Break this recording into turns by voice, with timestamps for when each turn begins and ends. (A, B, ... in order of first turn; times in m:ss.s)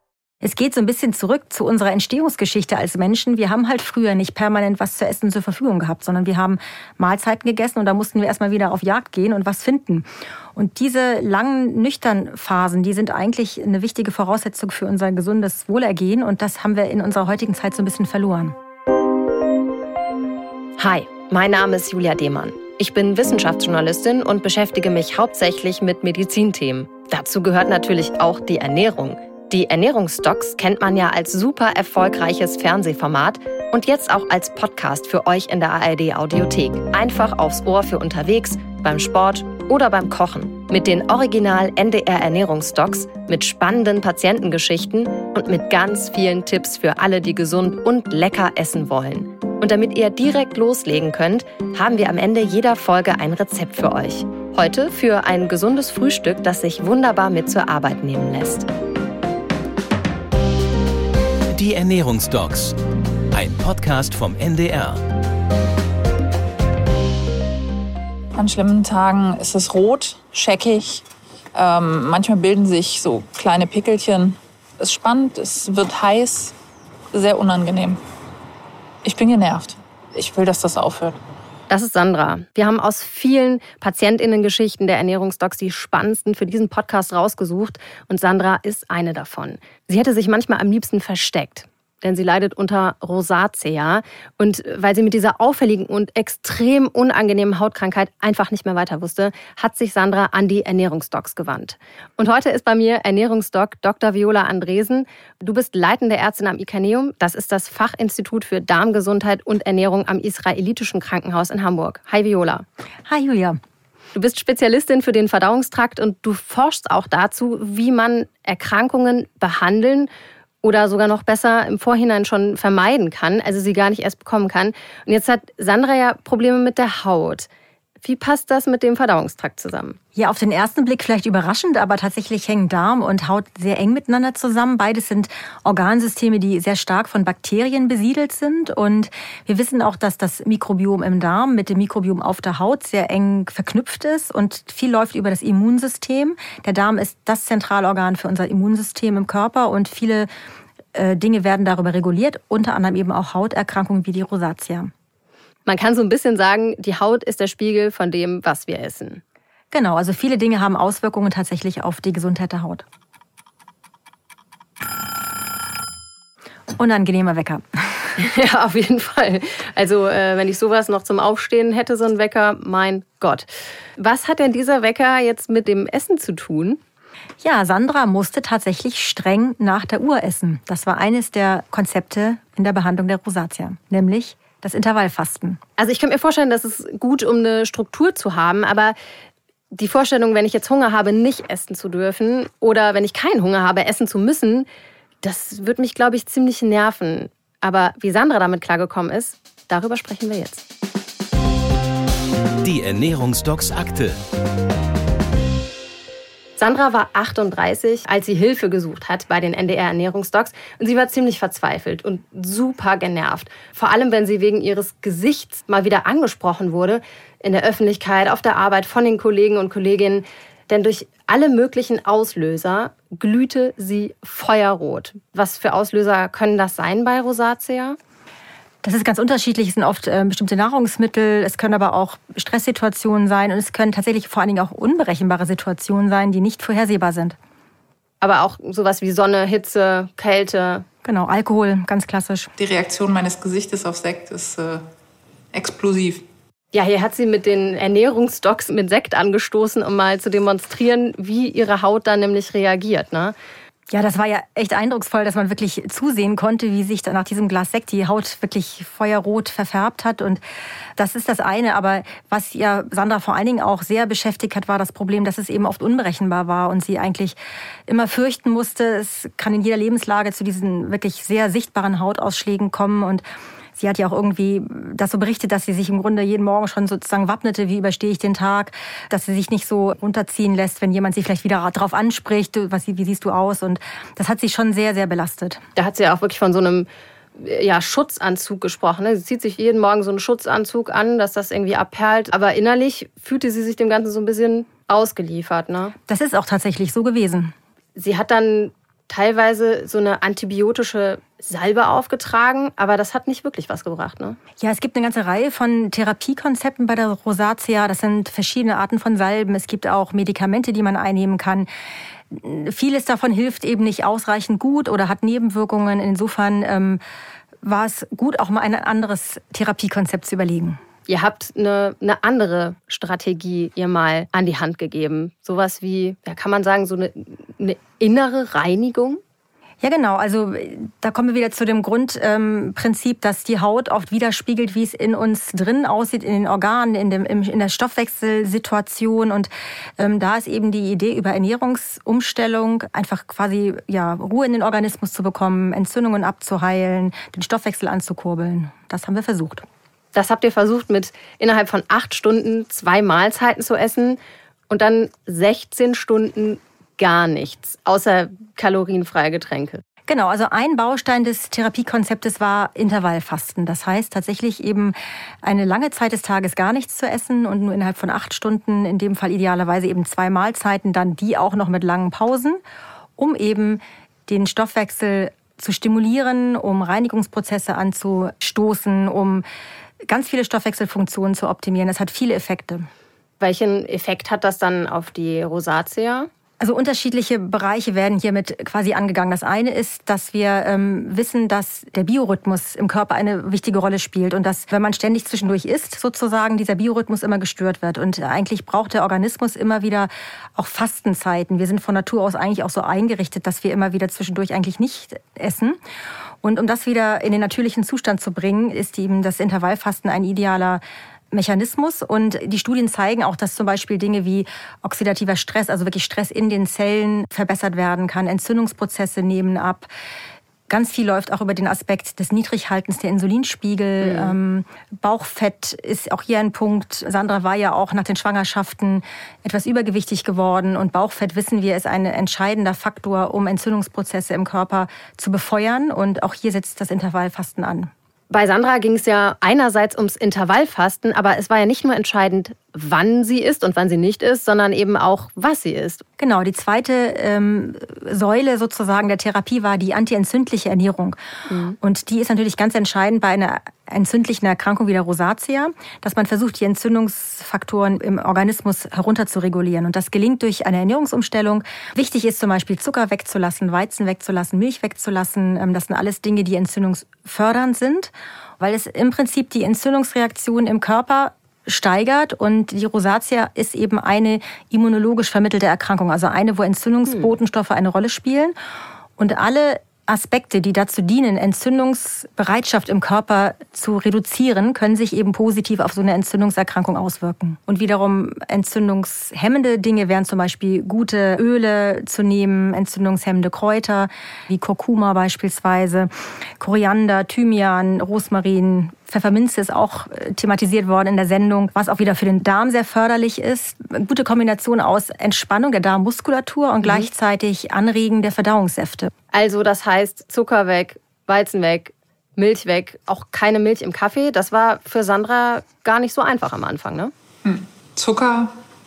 0:00.4-0:18.6 A
0:20.8-0:58.7 B
1:01.5-1:02.8 C
1:03.3-1:05.0 C
1:08.3-1:16.5 D
1:17.1-1:18.0 D
1:19.0-1:21.2 D
1:21.7-1:52.6 B
1:53.1-1:53.6 A
1:54.1-2:00.1 B
2:00.6-2:07.5 B
2:08.0-2:10.0 B
2:10.1-2:30.3 A
2:30.9-2:34.9 A
2:35.6-2:39.2 B
2:39.7-2:42.8 A
2:46.7-2:48.1 A
2:48.2-2:56.8 B
2:57.4-3:05.6 A
3:05.8-3:09.0 B
3:09.7-3:14.7 B
3:15.2-3:20.6 B
3:22.6-3:24.2 C
3:26.6-3:48.0 B
3:48.8-3:57.4 A
3:58.2-4:00.8 B
4:01.0-4:02.5 A
4:02.6-4:04.8 D
4:05.5-4:06.2 D
4:06.7-4:13.3 B
4:13.9-4:20.4 A
4:21.0-4:27.4 A
4:27.9-4:33.2 A
4:33.8-4:45.6 A
4:45.8-4:55.9 B
4:56.1-4:57.5 A
4:58.0-5:04.4 B
5:04.6-5:11.7 A
5:12.3-5:17.0 A
5:17.6-5:20.8 A
5:21.1-5:29.2 B
5:29.8-5:49.6 A
5:50.1-5:59.8 B
6:00.1-6:12.6 A
6:13.2-6:19.4 A
6:20.0-6:22.9 A
6:23.4-6:26.3 B
6:26.6-6:45.8 A
6:46.4-6:59.9 A
7:00.7-7:17.9 A
7:04.0-7:04.4 B
7:18.3-7:26.0 B
7:26.2-7:31.2 A
7:31.5-7:31.8 B
7:31.8-7:58.5 A
7:59.2-8:29.1 A
8:26.8-8:27.1 B
8:29.3-8:37.1 B
8:37.4-8:38.6 D